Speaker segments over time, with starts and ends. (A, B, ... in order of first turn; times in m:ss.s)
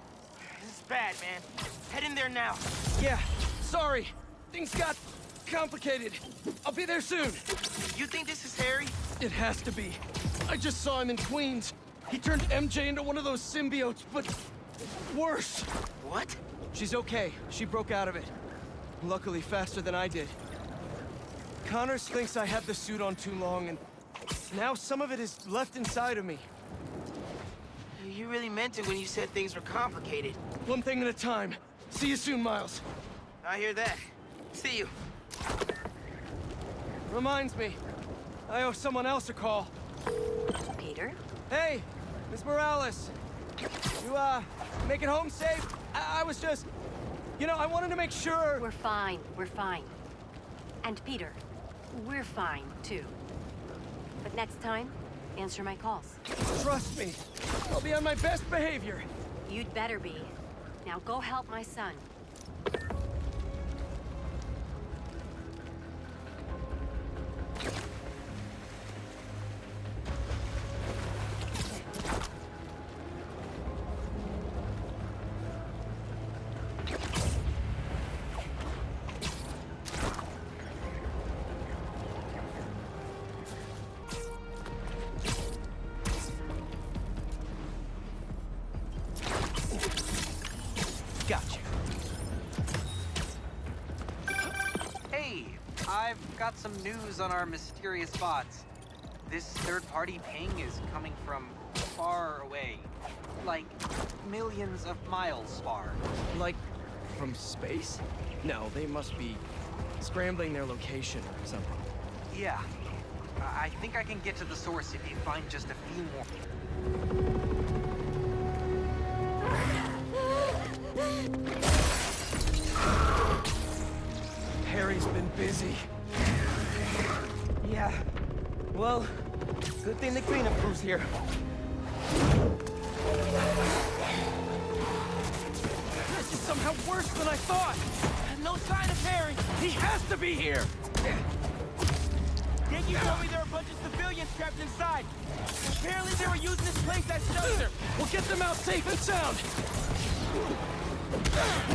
0:00.4-0:02.6 A
0:03.0-0:07.4 B
0:07.9-0:09.0 A
0:09.2-0:14.4 B
0:15.0-0:15.7 B
0:16.0-0:16.4 A
0:16.7-0:18.3 B
0:19.0-0:20.4 B
0:21.6-0:23.8 B
0:24.5-0:26.5 B
0:27.9-0:30.4 A
0:30.6-0:32.8 B
0:33.4-0:34.9 A
0:37.1-0:37.8 B
0:38.5-0:39.7 B
0:40.7-0:41.2 C
0:41.5-0:43.1 B
0:44.0-0:46.7 B
0:47.4-0:48.6 B
0:48.6-0:49.9 C
0:50.8-0:51.4 C
0:51.9-0:53.2 C
0:54.2-0:56.2 C
0:56.4-0:59.1 B
0:59.4-1:00.3 C
1:00.8-1:02.0 C
1:31.2-1:31.7 A
1:35.1-1:38.7 D
1:39.2-1:42.9 D
1:43.4-1:46.0 D
1:46.3-1:49.4 B
1:50.0-1:51.8 B
1:52.3-1:52.7 D
1:53.4-1:56.5 D
2:04.6-2:05.9 B
2:07.6-2:08.1 A
2:08.7-2:09.3 A
2:09.8-2:11.2 A
2:16.0-2:17.8 B
2:18.2-2:19.6 A
2:19.6-2:20.7 B
2:22.7-2:25.1 A
2:25.6-2:27.8 A
2:27.9-2:29.5 B